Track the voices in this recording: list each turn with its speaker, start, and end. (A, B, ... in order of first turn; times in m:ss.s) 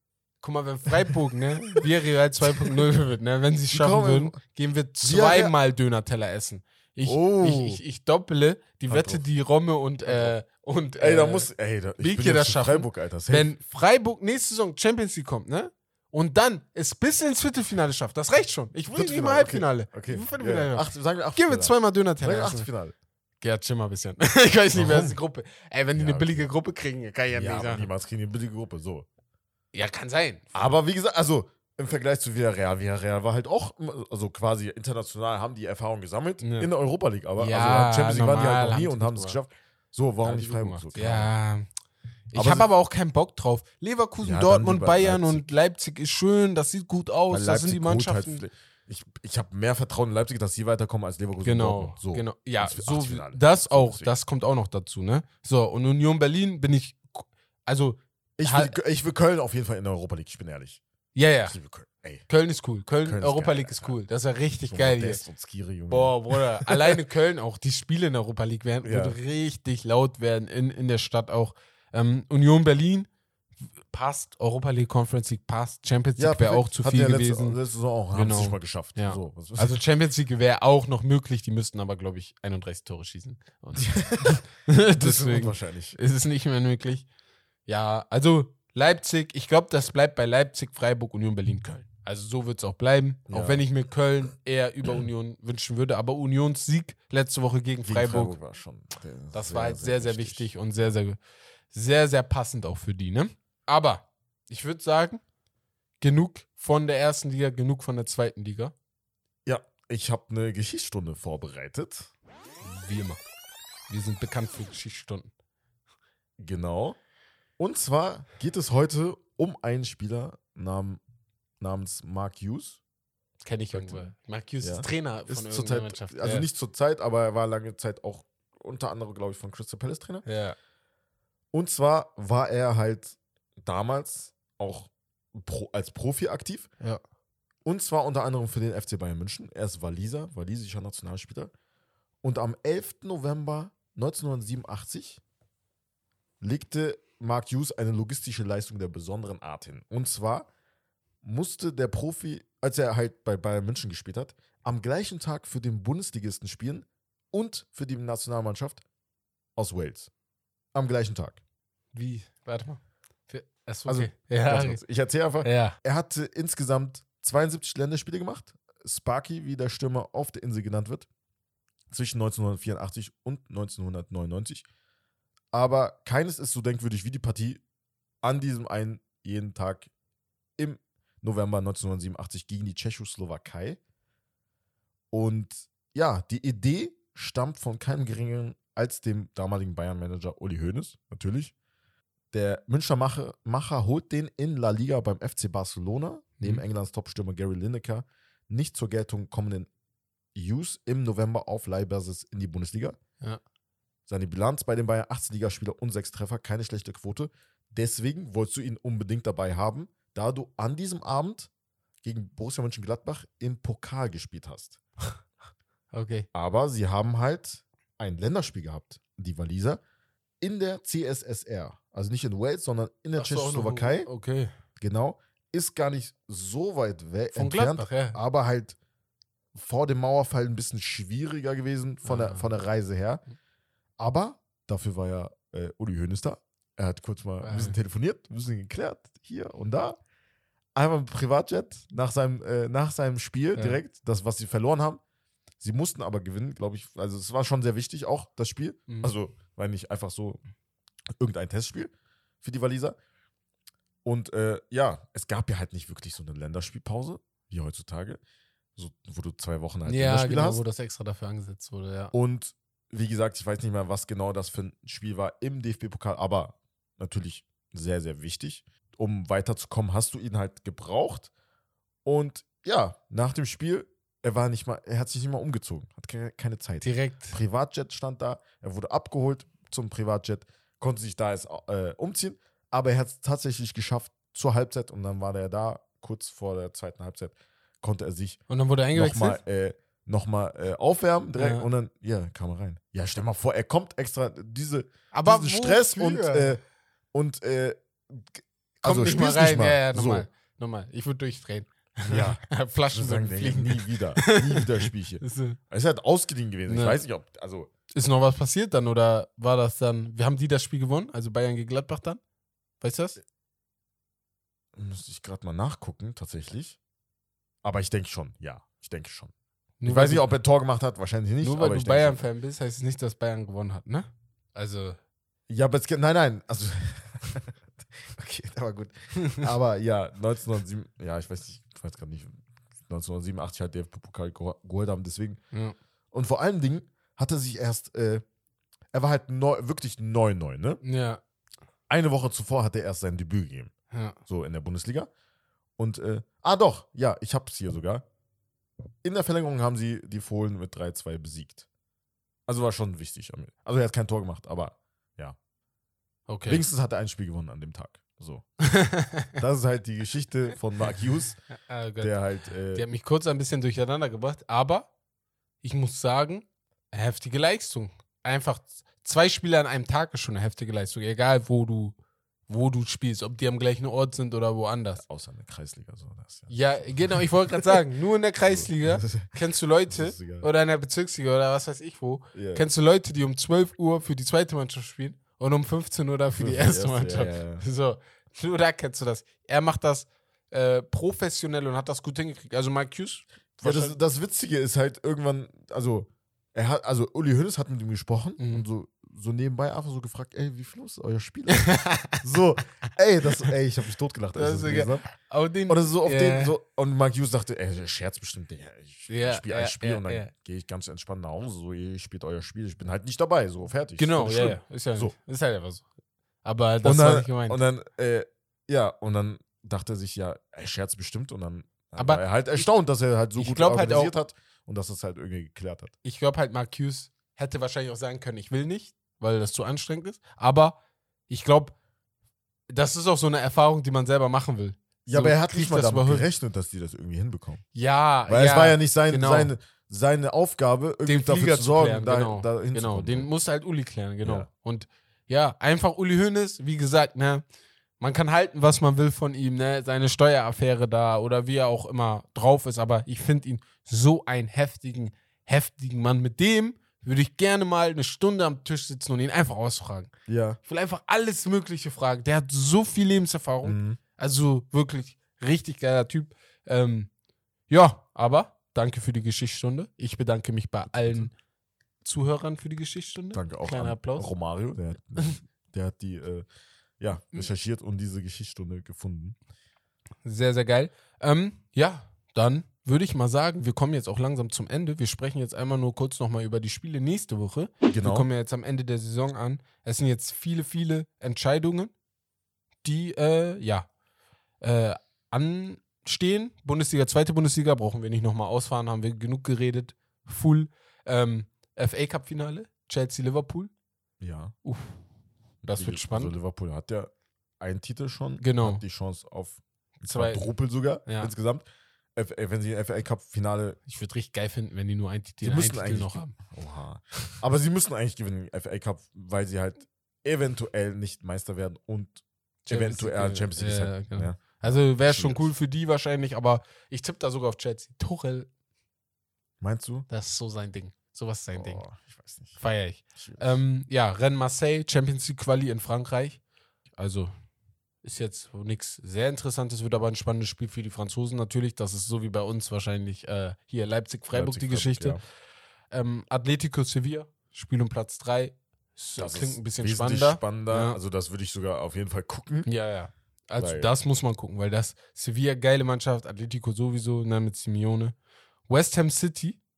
0:00.4-0:22.7 A
0:02.4-0:02.7 B
0:03.7-0:04.4 B
0:05.0-0:05.5 B
0:07.0-0:07.8 B
0:08.9-0:09.2 B
0:10.0-0:10.4 B
0:11.0-0:13.5 B
0:18.9-0:22.9 B
0:23.4-0:27.9 A
0:24.7-0:25.2 B
0:26.0-0:26.5 B
0:27.3-0:29.1 B
0:29.7-0:30.7 A
0:30.5-0:41.3 B
0:36.4-0:36.7 A
0:37.4-0:39.4 A
0:40.2-0:41.7 A
0:42.3-0:48.4 A
0:42.3-0:42.7 B
0:44.2-0:45.5 B
0:47.3-0:54.1 B
0:51.4-0:58.7 A
0:58.4-1:00.8 B
1:01.1-1:01.6 A
1:01.5-1:02.3 B
1:02.3-1:05.2 A
1:03.0-1:03.9 B
1:04.7-1:07.0 B
1:05.9-1:13.1 A
1:08.8-1:09.2 B
1:13.9-1:17.6 A
1:16.2-1:19.8 B
1:18.1-1:27.1 A
1:23.8-1:24.4 B
1:25.0-1:26.0 B
1:27.6-1:38.4 A
1:33.3-1:33.6 B
1:37.8-1:40.5 B
1:39.3-1:41.2 A
1:41.7-1:45.2 A
1:46.0-1:48.7 A
1:49.4-1:52.1 B
1:52.6-1:53.2 A
1:53.9-1:55.3 A
1:56.4-1:57.0 B
1:57.6-2:01.0 B
2:01.6-2:02.8 B
2:03.4-2:06.5 A
2:03.7-2:04.1 B
2:04.6-2:10.2 B
2:10.2-2:10.6 A
2:11.5-2:16.7 B
2:17.6-2:21.5 B
2:22.2-2:25.2 B
2:26.4-2:30.5 B
2:31.2-2:38.8 B
2:39.6-2:40.1 B
2:40.7-2:41.4 B
2:41.9-2:44.8 A
2:43.8-2:51.1 B
2:45.4-2:45.8 A
2:51.9-2:54.6 B
2:55.5-2:57.6 B
2:58.2-2:59.9 B
3:00.6-3:03.8 B
3:05.1-3:11.5 B
3:12.3-3:19.7 B
3:20.3-3:23.0 B
3:24.1-3:31.5 B
3:32.0-3:34.8 B
3:35.9-3:36.3 A
3:36.3-3:39.8 B
3:40.4-3:44.1 B
3:43.2-3:44.5 A
3:44.8-3:48.8 B
3:47.3-3:48.2 A
3:49.5-3:53.2 B
3:52.0-3:52.5 A
3:54.0-4:00.0 B
3:57.4-3:57.8 A
4:00.7-4:05.0 B
4:05.6-4:10.4 B
4:08.9-4:09.1 A
4:11.2-4:11.9 B
4:12.4-4:13.0 B
4:14.0-4:18.2 B
4:18.8-4:20.6 B
4:19.8-4:22.1 A
4:22.1-4:31.3 B
4:32.0-4:48.4 B
4:36.8-4:37.4 A
4:48.5-4:49.4 A
4:48.9-4:56.6 B
4:51.4-4:51.7 A
4:55.1-4:56.6 A
4:57.1-5:00.2 B
4:58.8-5:05.6 A
5:02.1-5:07.7 B
5:06.7-5:07.0 A
5:07.9-5:12.2 A
5:12.8-5:13.2 A
5:14.7-5:16.8 B
5:17.6-5:19.3 B
5:19.8-5:20.3 A
5:19.8-5:22.2 B
5:21.4-5:25.0 A
5:25.5-5:35.4 B
5:29.2-5:29.4 A
5:36.1-5:38.2 B
5:38.9-5:40.8 B
5:40.8-5:41.2 A
5:41.9-5:43.7 B
5:43.9-5:44.2 A
5:44.3-5:45.1 B
5:45.8-5:48.0 B
5:49.0-5:51.6 B
5:52.5-5:55.4 B
5:56.3-5:56.6 A
5:56.5-5:58.4 B
5:58.6-5:59.4 A
5:59.4-6:01.4 B
6:01.5-6:02.1 A
6:02.0-6:02.8 B
6:02.7-6:04.9 A
6:05.6-6:12.0 A
6:12.5-6:15.0 A
6:15.0-6:17.8 B
6:16.5-6:34.0 A
6:18.4-6:19.3 B
6:19.9-6:20.5 B
6:22.3-6:22.6 B
6:26.3-6:27.6 B
6:33.6-6:45.1 B
6:38.4-6:38.6 A
6:41.5-6:42.2 A
6:44.4-6:46.5 A
6:45.7-6:55.1 B
6:49.1-6:50.3 A
6:54.0-6:55.8 A
6:56.4-6:57.6 A
6:56.8-7:05.9 B
7:02.0-7:02.7 A
7:03.4-7:04.1 A
7:06.0-7:10.8 A
7:11.3-7:11.7 A
7:12.7-7:16.3 A
7:15.0-7:17.6 B
7:17.7-7:19.5 A
7:18.3-7:23.3 B
7:21.0-7:27.4 A
7:24.2-7:24.5 B
7:28.0-7:40.1 A
7:40.3-7:40.6 B
7:40.6-7:47.1 A
7:43.6-7:44.0 B
7:47.7-7:51.3 A
7:50.9-7:51.3 B
7:52.0-7:54.3 A
7:53.3-7:56.4 B
7:57.0-7:59.4 B
8:00.2-8:11.9 A
8:07.9-8:08.3 B
8:12.8-8:13.9 A
8:14.6-8:23.7 A
8:24.2-8:24.5 B
8:24.6-8:25.0 A
8:25.6-8:33.8 B
8:25.7-8:26.3 A
8:28.4-8:28.8 A
8:30.0-8:30.5 A
8:31.0-8:31.3 A
8:33.9-8:36.4 A
8:35.4-8:45.5 B
8:42.7-8:48.5 A
8:49.6-8:50.1 B
8:50.1-8:51.8 A
8:51.5-8:52.6 B
8:52.6-8:56.4 A
8:53.2-8:53.6 B
8:57.0-8:57.3 A
8:58.0-9:05.2 A
9:04.3-9:05.2 B
9:05.9-9:11.0 A
9:09.2-9:12.7 B
9:12.6-9:18.1 A
9:13.6-9:13.9 B
9:18.7-9:19.6 A